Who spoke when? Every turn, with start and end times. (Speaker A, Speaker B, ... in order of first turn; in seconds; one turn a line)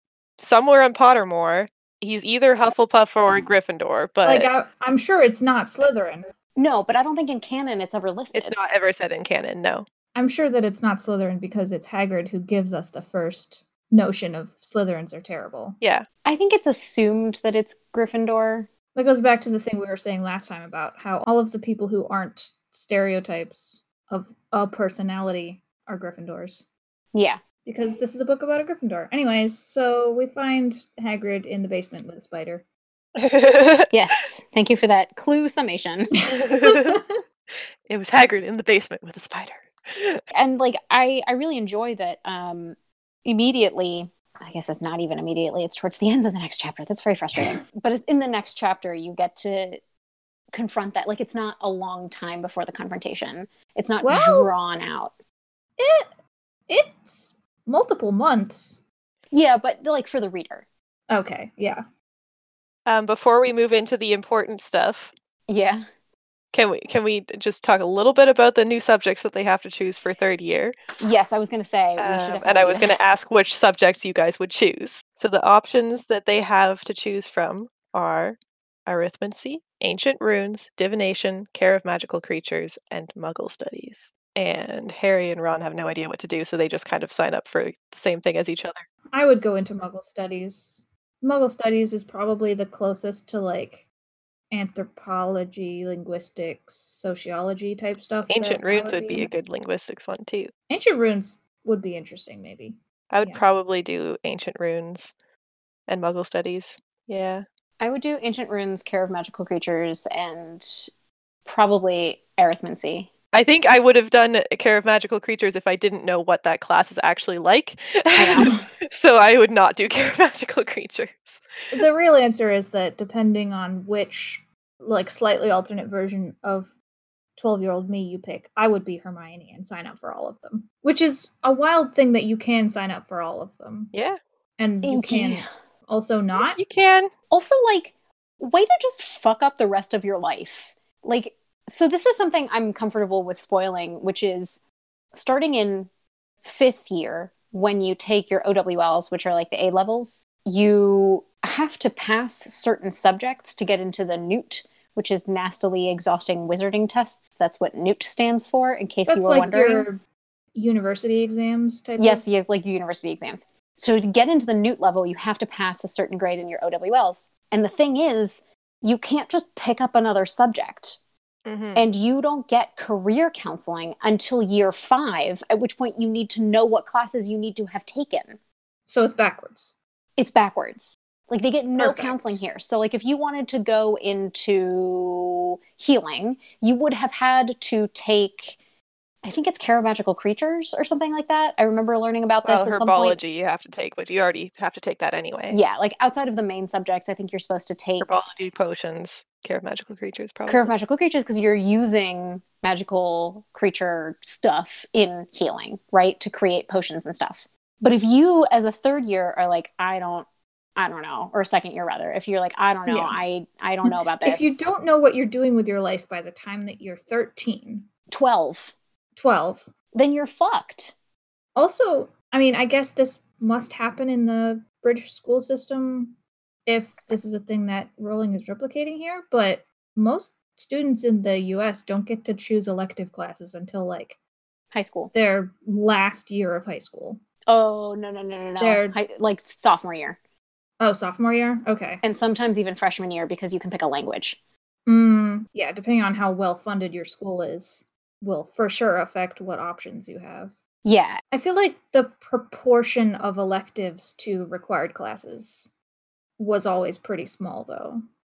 Speaker A: 0.4-4.5
Speaker B: 4.2-6.3
Speaker C: 6.6-8.6
Speaker A: 8.3-9.9
Speaker B: 10.2-15.8
Speaker A: 15.8-16.1
Speaker C: 16.2-18.7
Speaker B: 18.9-26.7
Speaker C: 27.1-27.4
Speaker B: 27.6-32.6
Speaker A: 33.2-33.9
Speaker C: 33.9-36.1
Speaker B: 36.2-37.2
Speaker A: 36.3-37.0
Speaker A: 37.9-40.2
Speaker C: 40.3-49.8
Speaker C: 50.5-55.1
Speaker B: 54.0-54.5
Speaker B: 55.8-56.1
Speaker B: 56.7-58.8
Speaker C: 59.3-60.7
Speaker B: 61.1-61.8
Speaker A: 62.9-65.1
Speaker C: 65.5-65.8
Speaker A: 66.5-70.8
Speaker C: 71.0-73.0
Speaker A: 72.0-88.9
Speaker B: 89.1-93.9
Speaker B: 94.5-99.3
Speaker A: 98.3-100.5
Speaker B: 100.7-103.4
Speaker A: 103.1-105.1
Speaker A: 105.9-107.4
Speaker C: 107.8-110.9
Speaker C: 111.5-113.1
Speaker A: 113.3-121.4
Speaker C: 118.2-118.7
Speaker B: 121.7-126.7
Speaker B: 127.4-133.9
Speaker A: 133.9-134.2
Speaker B: 134.6-136.6
Speaker C: 134.8-135.5
Speaker A: 136.4-137.1
Speaker C: 137.3-144.6
Speaker C: 145.1-145.9
Speaker C: 146.4-159.9
Speaker B: 159.1-160.0
Speaker B: 160.5-162.3
Speaker C: 162.0-171.0
Speaker A: 171.5-171.9
Speaker C: 171.8-178.4
Speaker B: 178.9-179.7
Speaker C: 180.2-188.6
Speaker B: 181.7-182.4
Speaker C: 189.2-193.2
Speaker A: 192.4-195.6
Speaker C: 195.5-198.1
Speaker A: 198.0-200.7
Speaker C: 200.5-214.6
Speaker B: 212.9-213.2
Speaker B: 213.8-217.9
Speaker C: 218.1-218.8
Speaker B: 219.2-219.7
Speaker C: 219.9-220.9
Speaker B: 221.6-234.2
Speaker C: 234.7-235.1
Speaker B: 235.1-237.2
Speaker C: 237.5-240.2
Speaker B: 238.6-239.0
Speaker B: 240.8-242.0
Speaker C: 242.0-244.4
Speaker B: 244.9-250.6
Speaker C: 250.8-251.2
Speaker B: 251.3-255.7
Speaker B: 256.4-258.0